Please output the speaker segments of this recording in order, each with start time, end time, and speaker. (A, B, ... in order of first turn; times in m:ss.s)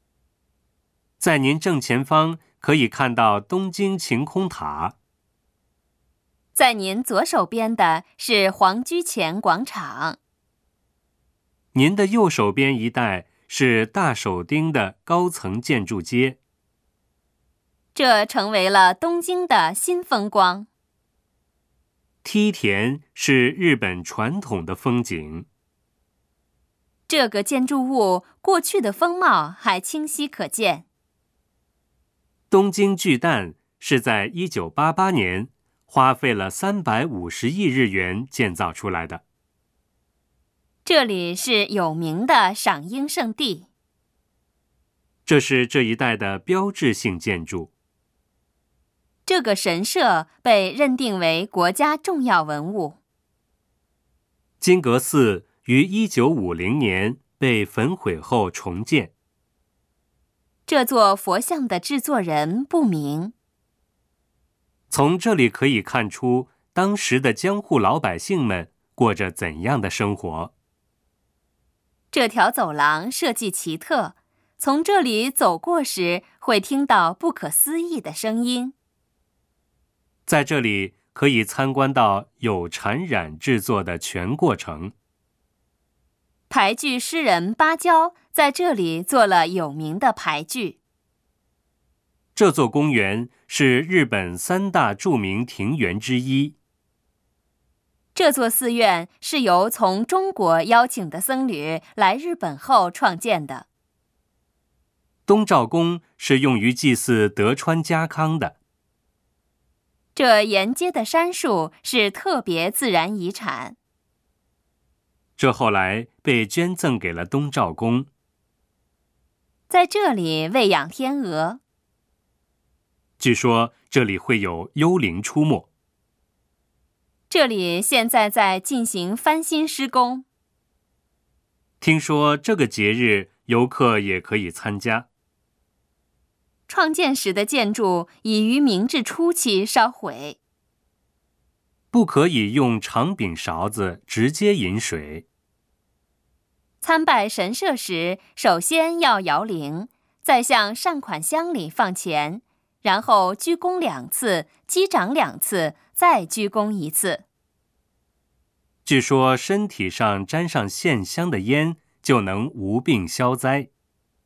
0:01.2-0:05.0 A
0:06.5-0:10.2 B
0:11.7-0:16.4 A
0:17.9-0:20.7 B
0:22.2-0:25.5 A
0:27.1-0:30.8 B
0:32.5-0:39.2 A
0:40.8-0:43.7 B
0:45.2-0:47.7 A
0:49.2-0:53.0 B
0:54.6-0:59.1 A
1:00.7-1:03.3 B
1:04.9-1:10.5 A
1:12.1-1:18.7 B
1:20.3-1:24.9 A
1:26.5-1:30.8 B
1:32.3-1:36.6 A
1:38.1-1:43.7 B
1:45.3-1:48.6 A
1:50.1-1:53.8 B
1:55.4-1:58.1 A
1:59.7-2:01.6 B
2:03.2-2:05.7 A
2:07.3-2:10.2 B
2:11.8-2:15.1 A
2:16.7-2:20.4 B
2:21.9-2:25.2 A
2:26.8-2:37.2 B
2:38.8-2:43.7 A